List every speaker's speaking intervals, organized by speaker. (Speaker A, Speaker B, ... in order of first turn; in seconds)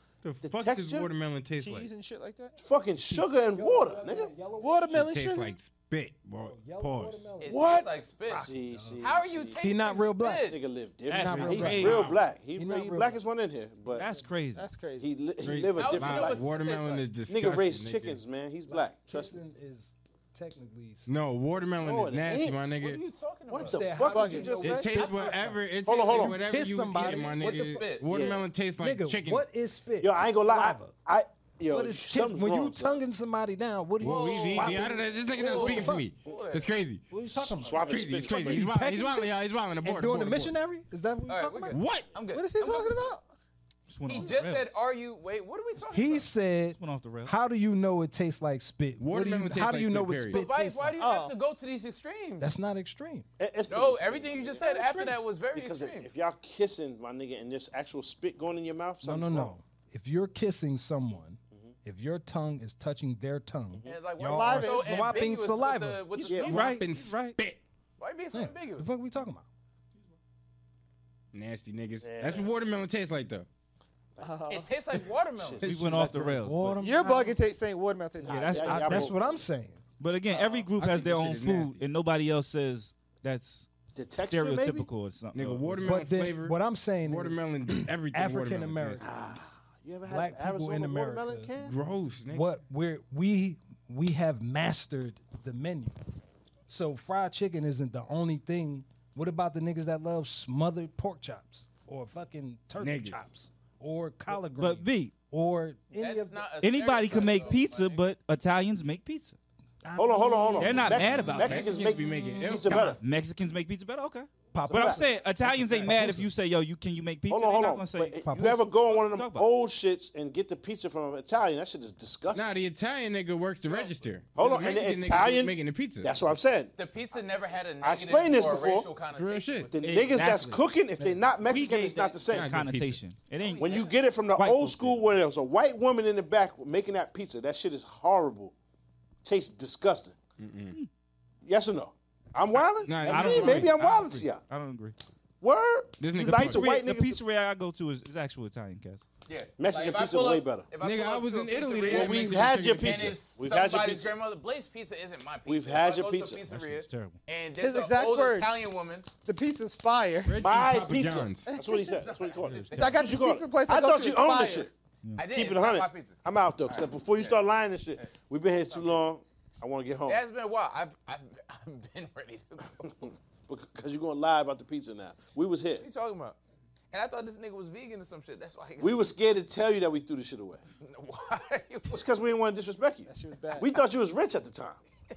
Speaker A: 0.2-1.9, 4.9-7.3, 15.4-18.2, 21.1-23.0, 24.6-29.5, 34.0-40.5, 41.7-42.2, 49.0-50.4, 66.3-67.6, 71.3-73.5, 80.4-81.8, 85.3-89.1, 91.6-92.5, 102.8-103.3, 111.1-113.0, 122.3-126.2, 129.1-130.6, 132.3-133.0, 140.4-140.8, 142.8-143.7, 146.0-146.7, 150.8-153.2, 160.2-161.5
Speaker B: 0.4-1.1, 2.6-4.3, 7.5-9.6, 10.2-14.0, 15.0-16.4, 17.3-19.4, 21.8-22.8, 23.5-25.0, 25.8-26.4, 28.1-28.4, 30.0-33.0, 37.6-38.7, 53.4-54.8, 55.5-59.5, 63.7-64.0, 72.0-72.5, 75.3-76.4, 78.2-79.4, 83.9-84.9, 89.0-91.7, 110.0-113.0, 114.6-115.0, 117.3-122.5, 124.3-126.7, 127.8-128.9, 129.7-132.5, 133.6-138.5, 139.2-140.1, 141.4-144.4, 145.4-147.2, 149.6-150.7, 151.9-154.1, 155.4-156.4, 160.4-164.7, 165.2-170.2, 173.0-175.8, 178.8-180.6, 181.9-184.8
Speaker C: 1.5-2.6, 4.6-5.6, 14.5-15.1, 24.0-24.7, 42.3-43.3, 51.0-51.3, 64.3-65.3, 74.2-74.7, 76.8-78.9, 157.6-158.5, 159.2-160.4, 161.5-161.9, 162.7-164.7, 183.1-183.7
Speaker D: 3.0-5.1, 6.3-10.6, 11.1-13.2, 13.9-14.2, 18.7-21.1, 23.6-27.9, 28.7-30.9, 31.7-36.1, 37.1-42.0, 45.8-51.1, 52.4-53.3, 54.6-55.1, 59.0-66.2, 68.3-69.4, 75.6-77.4, 78.6-79.8, 85.8-89.5, 90.0-91.5, 92.3-96.0, 96.7-106.6, 109.8-112.9, 114.5-116.3, 118.2-118.8
Speaker E: 7.4-10.6, 15.8-17.1, 22.8-24.1, 24.9-28.1, 34.0-36.7, 41.3-43.1, 44.0-46.3, 50.3-52.5, 53.7-56.1, 63.8-66.8, 68.0-68.9, 74.5-75.8, 105.9-108.0, 123.6-124.0, 126.8-129.8, 133.4-134.0, 149.2-159.1, 161.8-163.2, 165.2-167.4, 168.0-169.0, 170.1-173.1, 175.8-176.4, 176.9-179.1, 180.8-182.0
Speaker F: 11.1-12.2, 13.9-14.7, 43.9-44.7, 46.7-47.3, 66.2-67.4, 75.6-76.8, 78.2-79.1, 80.0-83.7, 84.3-86.0, 104.6-105.1, 106.6-109.4, 110.6-111.7, 112.7-118.2, 118.9-119.5, 130.1-130.6, 131.4-135.1, 143.0-144.9, 146.2-149.1, 156.5-157.2, 162.4-163.1